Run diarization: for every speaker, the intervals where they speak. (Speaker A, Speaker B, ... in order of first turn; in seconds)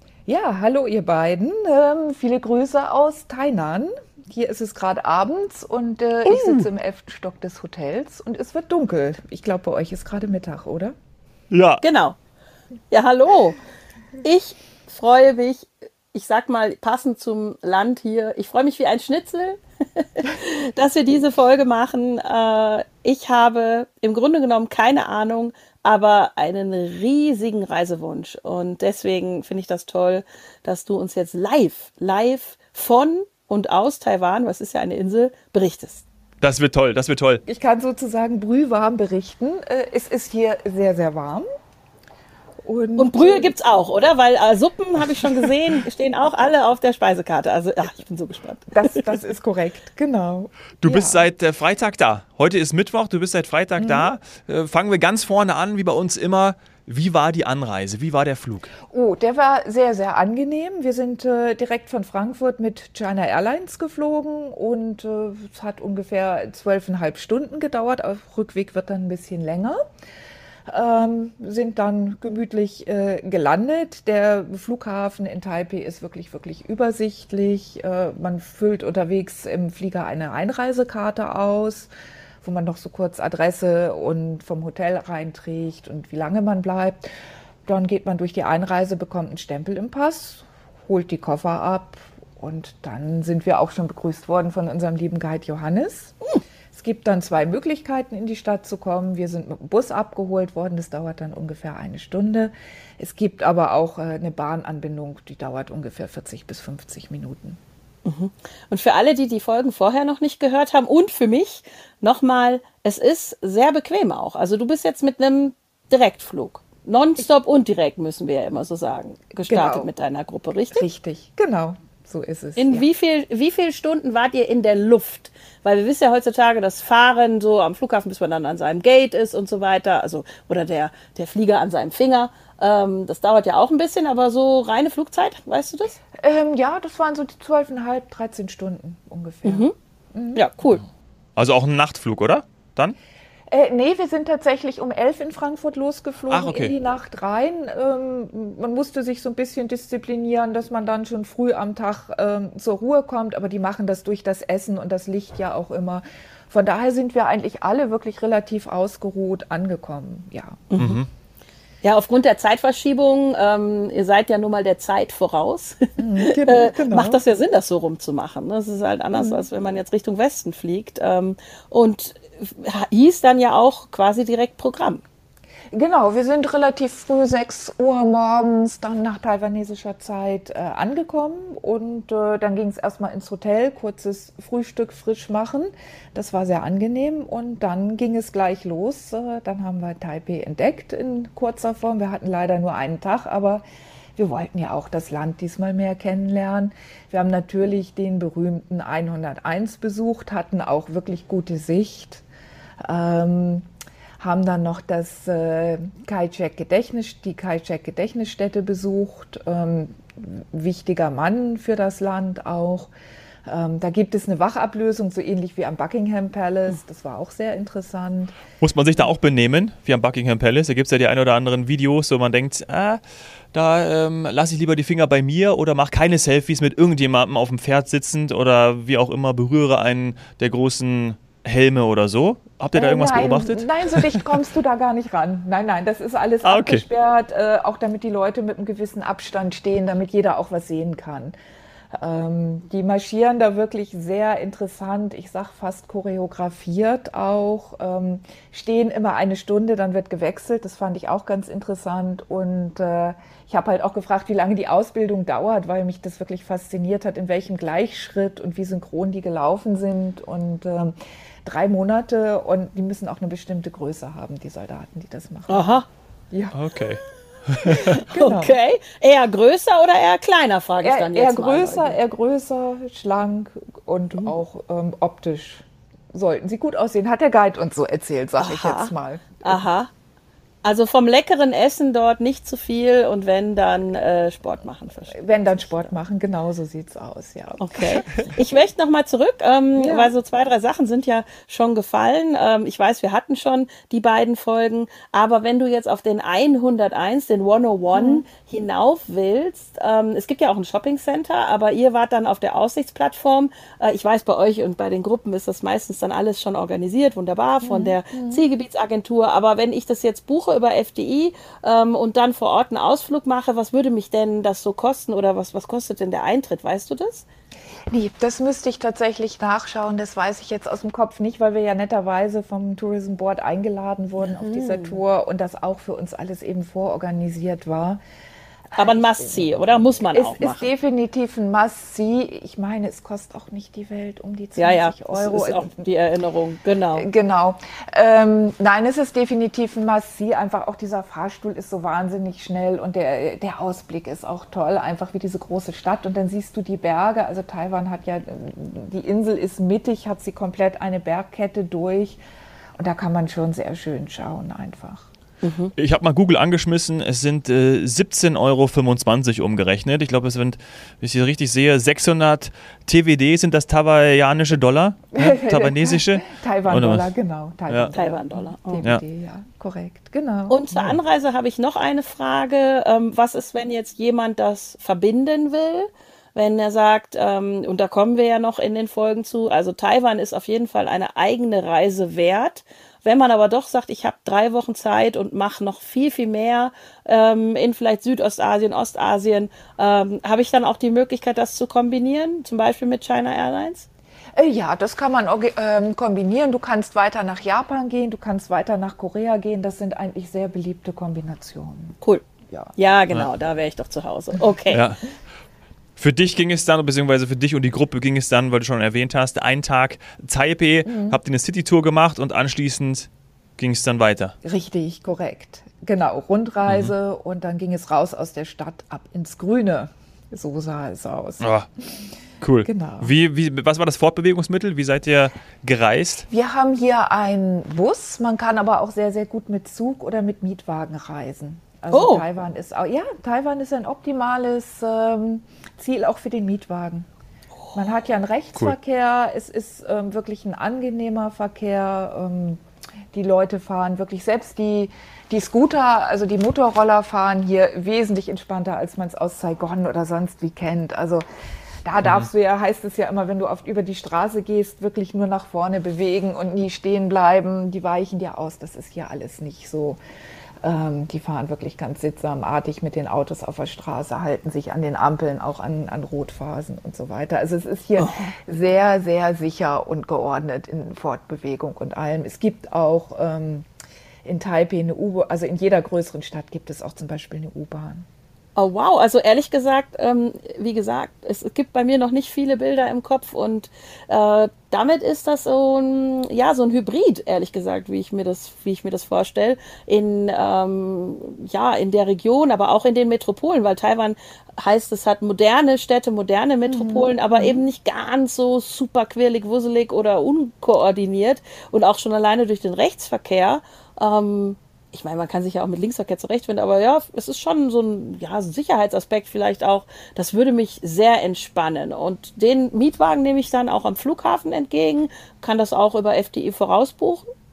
Speaker A: 0.3-10.9, 37.5-41.5, 42.6-43.5, 48.7-51.3, 53.8-54.1, 58.9-69.8, 70.7-81.9, 82.4-87.0, 87.7-96.2, 96.7-107.6, 119.5-119.9, 120.7-122.9, 136.2-140.4, 143.5-160.6, 166.0-167.2, 169.1-169.5, 175.7-193.6, 194.2-202.2, 202.8-203.7, 204.2-212.9, 213.5-218.4, 232.7-241.3, 242.0-260.9, 261.4-265.8, 266.3-266.6, 267.9-268.6, 270.8-279.6, 285.1-288.2, 289.8-290.1, 297.9-298.2, 307.6-308.4, 317.9-328.0, 328.8-335.9, 336.9-352.2, 352.8-355.1, 365.1-370.6, 394.4-402.0, 402.5-402.8, 410.9-411.2, 414.4-421.5, 422.6-423.1, 426.3-437.1, 437.7-442.6, 443.1-451.2, 451.9-460.0, 460.6-473.7, 474.2-478.1, 496.7-497.6
Speaker B: 11.5-11.8, 36.4-37.4, 50.8-58.7, 141.4-143.0, 146.3-146.7, 160.8-161.1, 218.6-223.0, 223.5-234.3, 236.4-236.8, 266.5-268.0, 355.8-367.1, 367.7-367.9, 370.7-371.0, 404.7-405.0, 406.0-414.3, 416.7-416.9, 421.4-421.7, 422.4-426.3
Speaker C: 11.8-12.2, 12.9-13.6, 14.2-36.0, 43.0-49.0, 108.0-120.8, 122.6-136.0, 139.4-139.7, 140.3-140.8, 160.7-161.0, 161.8-175.0, 265.5-265.9, 267.7-272.0, 278.4-278.9, 279.4-279.9, 280.6-285.9, 287.6-317.3, 324.2-325.0, 328.8-330.7, 334.6-337.1, 355.4-355.7, 367.9-368.9, 370.5-393.9, 402.8-404.9, 431.9-432.2, 468.0-468.3, 478.6-517.3